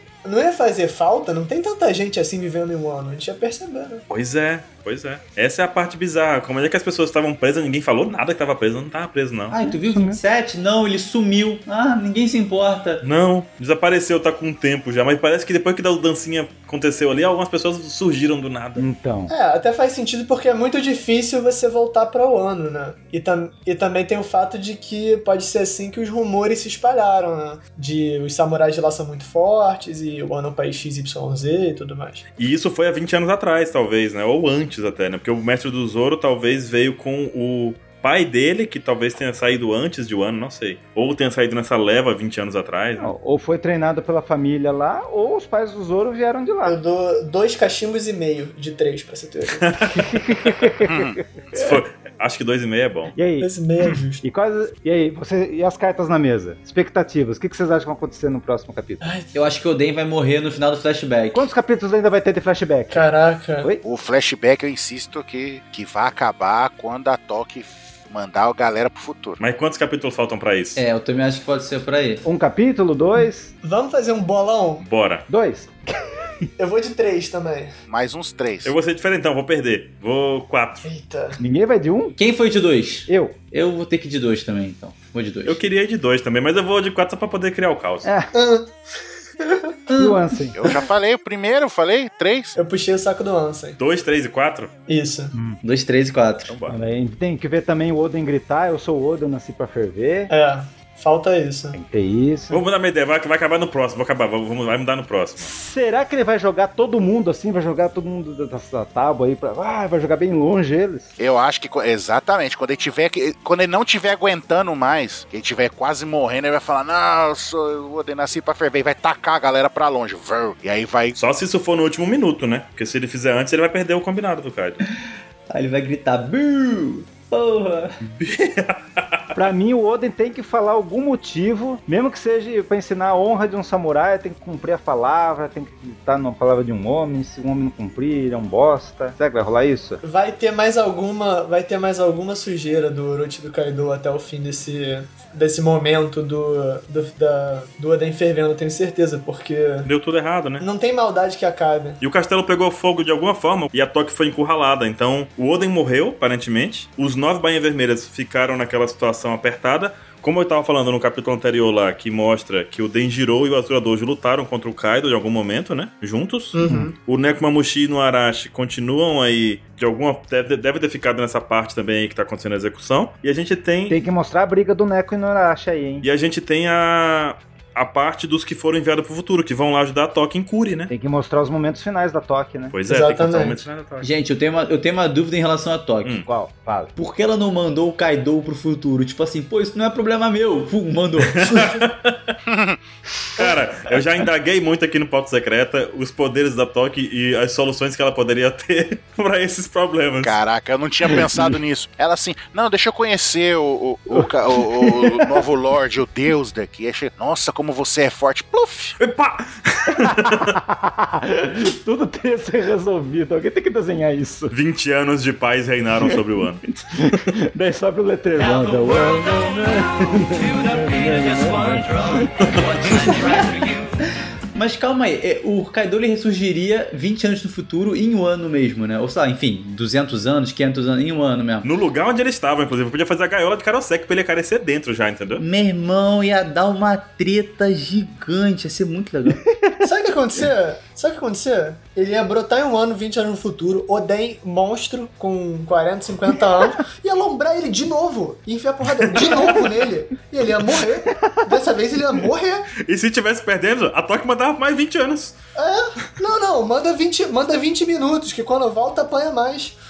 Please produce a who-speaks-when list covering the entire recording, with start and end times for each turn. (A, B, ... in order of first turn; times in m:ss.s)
0:00.2-0:04.0 A
0:04.1-0:09.5 B
0:09.5-0:13.0 C
0:09.6-0:10.2 D
0:13.0-0:18.9 B
0:18.8-0:19.3 D
0:19.3-0:32.3 A
0:32.4-0:43.1 B
0:43.0-0:46.8 D
0:46.6-0:49.9 A
0:49.6-0:50.6 B
0:49.9-0:51.2 D
0:50.8-0:51.2 E
0:51.5-0:53.1 B
0:53.2-0:53.5 D
0:53.4-0:54.2 A
0:54.2-0:59.1 D
0:59.0-0:59.3 A
0:59.3-1:01.5 C
1:01.3-1:03.0 D
1:02.9-1:03.7 A
1:03.8-1:09.4 E
1:09.4-1:10.8 B
1:10.8-1:12.2 C
1:12.2-1:13.5 D
1:13.2-1:14.8 A
1:14.8-1:15.3 B
1:15.3-1:16.5 D
1:16.6-1:17.7 A
1:17.9-1:18.7 E
1:18.6-1:20.9 B
1:20.8-1:21.4 A
1:21.4-1:22.2 D
1:22.2-1:25.6 C
1:23.1-1:23.4 D
1:25.5-1:28.1 B
1:28.0-1:28.3 D
1:28.3-1:28.8 A
1:29.4-1:29.7 A
1:29.9-1:30.2 C
1:30.0-1:30.6 D
1:30.5-1:32.6 E
1:32.6-1:33.8 A
1:33.8-1:34.7 B
1:34.9-1:35.3 A
1:35.3-1:35.6 D
1:35.6-1:36.5 C
1:36.5-1:36.8 B
1:36.7-1:40.3 D
1:40.3-1:41.8 A
1:41.7-1:42.6 D
1:42.5-1:45.5 B
1:45.4-1:51.1 D
1:51.2-2:01.2 E
2:01.2-2:04.8 B
2:05.5-2:08.0 C
2:08.2-2:09.4 B
2:09.4-2:20.0 D
2:20.0-2:29.9 A
2:29.8-2:30.7 B
2:30.6-2:32.0 A
2:32.0-2:54.0 B
2:46.5-2:47.0 A
2:53.9-2:56.1 D
2:56.0-3:00.9 B
3:00.9-3:02.8 D
3:02.7-3:04.1 B
3:02.9-3:03.7 A
3:04.0-3:06.2 C
3:06.2-3:07.0 D
3:07.0-3:11.6 C
3:11.3-3:12.4 B
3:12.5-3:12.8 E
3:13.4-3:20.4 B
3:20.2-3:29.0 E
3:24.2-3:25.4 D
3:29.0-3:30.6 B
3:29.9-3:34.5 D
3:34.5-3:36.6 B
3:36.0-3:42.3 D
3:42.0-3:42.3 C
3:42.4-3:43.1 B
3:42.8-3:51.7 C
3:51.6-3:55.4 B
3:55.4-3:59.4 C
3:59.3-3:59.8 D
3:59.8-4:12.7 A
4:09.1-4:09.6 B
4:11.2-4:11.6 D
4:12.8-4:15.4 B
4:15.6-4:19.8 A